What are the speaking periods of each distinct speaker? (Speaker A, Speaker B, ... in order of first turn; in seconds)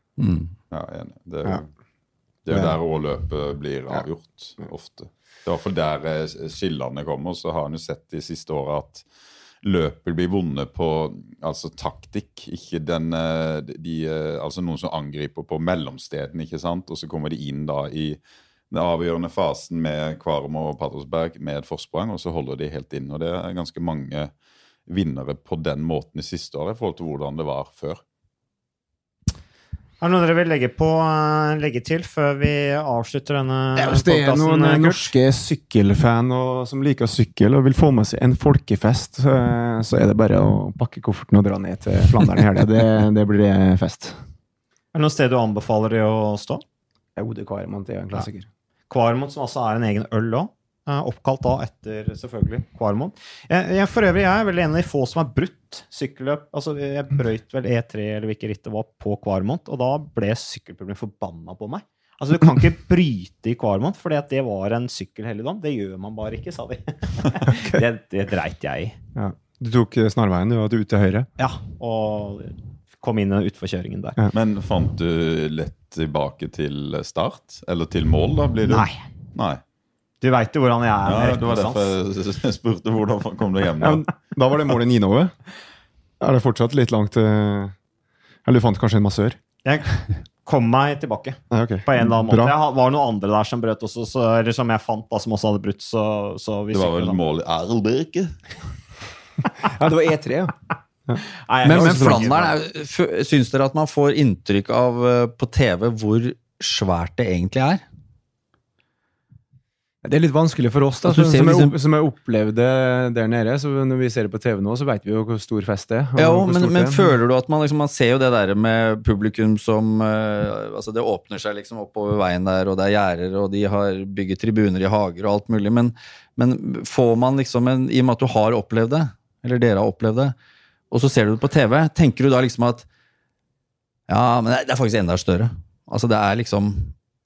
Speaker A: 0.2-0.5, 101.6-107.8, 111.0-111.8, 116.2-130.3, 130.9-132.9, 134.1-136.9
Speaker B: 0.7-1.7, 2.5-9.1, 9.6-18.2, 18.7-24.3, 24.9-28.0, 74.3-79.6, 81.1-84.1, 96.7-98.4
Speaker C: 2.5-2.8, 33.8-44.2, 47.2-48.5, 69.2-71.3, 83.8-85.3, 86.2-87.8, 88.5-89.4, 91.5-92.5, 99.6-100.5, 101.1-102.3, 110.0-117.2
Speaker D: 30.0-35.1, 44.9-46.6, 48.9-69.0, 71.4-74.2, 78.7-79.0, 80.2-81.9, 89.7-97.2, 101.5-102.5